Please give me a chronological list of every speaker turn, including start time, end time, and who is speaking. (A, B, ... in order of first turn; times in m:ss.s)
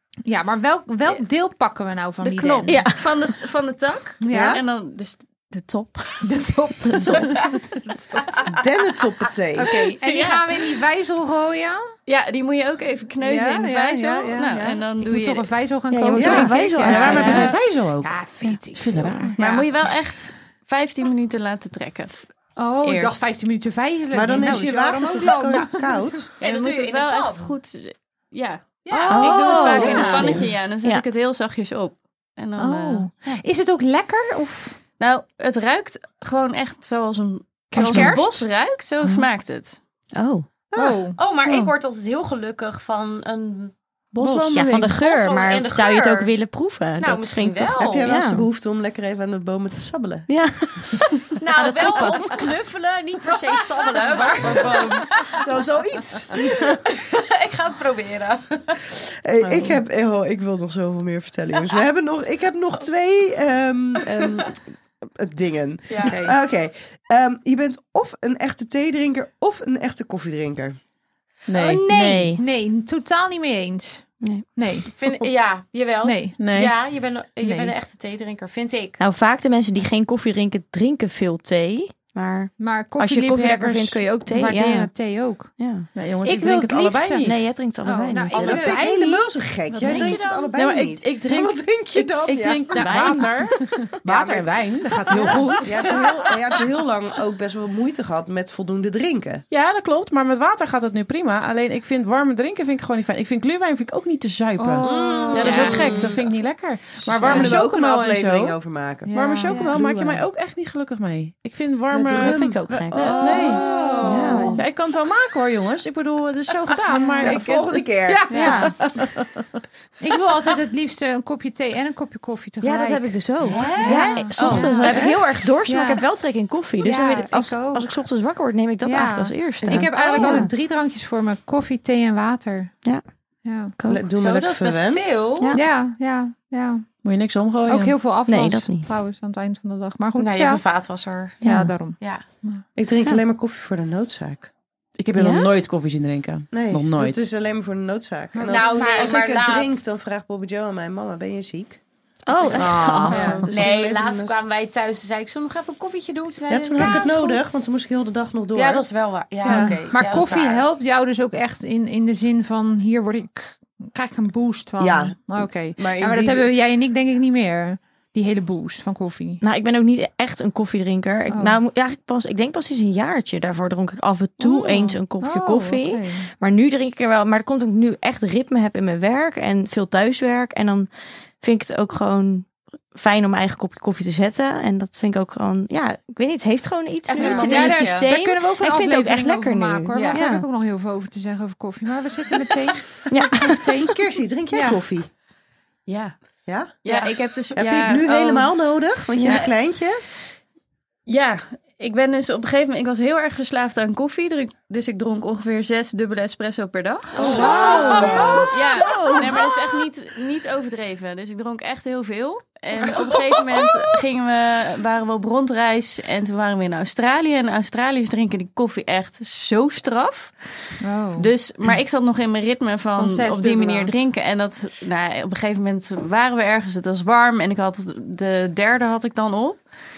0:00.2-0:02.9 A
0:02.2-0:06.3 B
0:02.7-0:03.1 C
0:04.2-0:04.6 A
0:04.3-0:04.6 D
0:06.2-0:08.2 A
0:06.9-0:07.6 B
0:08.4-0:09.7 D
0:09.6-0:11.9 A
0:09.8-0:10.5 B
0:12.1-0:15.5 B
0:13.2-0:19.7 A
0:15.9-0:17.6 C
0:16.2-0:19.4 E
0:16.2-0:16.5 D
0:17.2-0:17.5 B
0:19.4-0:22.3 B
0:22.6-0:26.3 A
0:22.8-0:23.3 B
0:24.1-0:26.3 D
0:26.4-0:33.1 B
0:26.4-0:27.6 F
0:28.8-0:30.4 F
0:28.9-0:30.3 A
0:29.1-0:31.0 C
0:32.6-0:34.8 A
0:35.0-0:39.8 B
0:37.7-0:38.4 A
0:37.7-0:38.1 C
0:40.2-0:40.5 C
0:40.7-0:41.2 A
0:41.1-0:43.7 F
0:41.4-0:41.7 C
0:44.1-0:44.9 E
0:44.3-0:48.4 C
0:44.8-0:46.3 F
0:47.0-0:48.1 F
0:47.8-0:50.3 D
0:50.3-0:52.5 C
0:51.4-0:55.4 F
0:54.3-0:56.3 E
0:54.4-0:54.8 D
0:55.4-0:56.4 D
0:56.3-0:58.9 F
0:59.0-1:10.8 D
1:05.9-1:06.2 F
1:06.0-1:06.4 A
1:11.5-1:11.9 E
1:11.6-1:14.9 A
1:11.8-1:12.4 C
1:14.2-1:14.5 C
1:14.9-1:19.0 F
1:16.0-1:16.4 A
1:16.4-1:16.7 E
1:17.4-1:17.7 A
1:19.0-1:24.9 C
1:22.6-1:25.5 A
1:25.5-1:25.9 C
1:25.9-1:27.5 E
1:26.2-1:28.9 A
1:27.2-1:28.9 C
1:28.3-1:33.1 D
1:28.8-1:30.5 F
1:29.8-1:36.0 E
1:29.8-1:30.2 C
1:32.7-1:33.6 C
1:34.0-1:34.6 D
1:35.6-1:39.4 D
1:39.5-1:48.6 E
1:44.6-1:45.7 A
1:44.8-1:46.3 D
1:45.3-1:46.1 F
1:47.1-1:50.2 D
1:47.2-1:47.5 A
1:47.3-1:47.6 C
1:49.1-1:49.7 A
1:49.1-1:53.6 E
1:51.9-1:54.6 D
1:52.2-1:53.2 C
1:52.9-1:54.6 A
1:53.5-1:54.5 F
1:54.0-1:54.6 C
1:54.5-1:59.4 E
1:56.9-1:57.3 A
1:57.2-1:58.4 D
1:58.3-1:58.8 A
1:58.3-1:58.7 C
2:00.0-2:05.0 A
2:02.6-2:10.5 C
2:03.4-2:05.1 F
2:05.6-2:06.0 A
2:06.8-2:07.9 A
2:08.8-2:12.7 A
2:13.4-2:13.7 A
2:13.8-2:14.0 C
2:13.9-2:15.2 D
2:14.1-2:15.6 F
2:15.5-2:16.9 A
2:17.0-2:18.0 E
2:17.6-2:20.6 A
2:18.2-2:18.9 C
2:20.2-2:21.4 F
2:21.4-2:22.6 A
2:21.4-2:21.7 C
2:22.0-2:22.2 F
2:22.8-2:24.5 D
2:25.0-2:27.2 E
2:25.2-2:25.5 C
2:26.5-2:31.8 D
2:28.3-2:29.2 A
2:28.4-2:30.0 F
2:32.3-2:33.5 C
2:32.5-2:33.5 E
2:33.1-2:34.3 D
2:33.4-2:37.6 F
2:36.5-2:38.9 D
2:38.5-2:40.6 F
2:39.4-2:39.8 D
2:39.5-2:49.4 A
2:44.8-2:46.5 D
2:49.4-3:00.9 C
2:51.3-2:51.6 A
2:54.5-2:56.3 A
3:01.4-3:10.4 C
3:07.1-3:08.1 F
3:07.2-3:07.4 B
3:07.2-3:14.0 A
3:09.9-3:10.2 F
3:13.1-3:13.7 C
3:13.8-3:15.1 D
3:14.5-3:14.8 A
3:16.5-3:16.7 D
3:16.8-3:18.0 F
3:16.8-3:18.6 B
3:17.5-3:20.0 D
3:19.2-3:19.4 C
3:21.0-3:40.3 B
3:27.2-3:28.5 F
3:27.2-3:29.4 D
3:27.2-3:28.5 A
3:27.6-3:28.1 C
3:40.8-3:41.3 A
3:41.2-3:49.6 B
3:43.0-3:43.9 A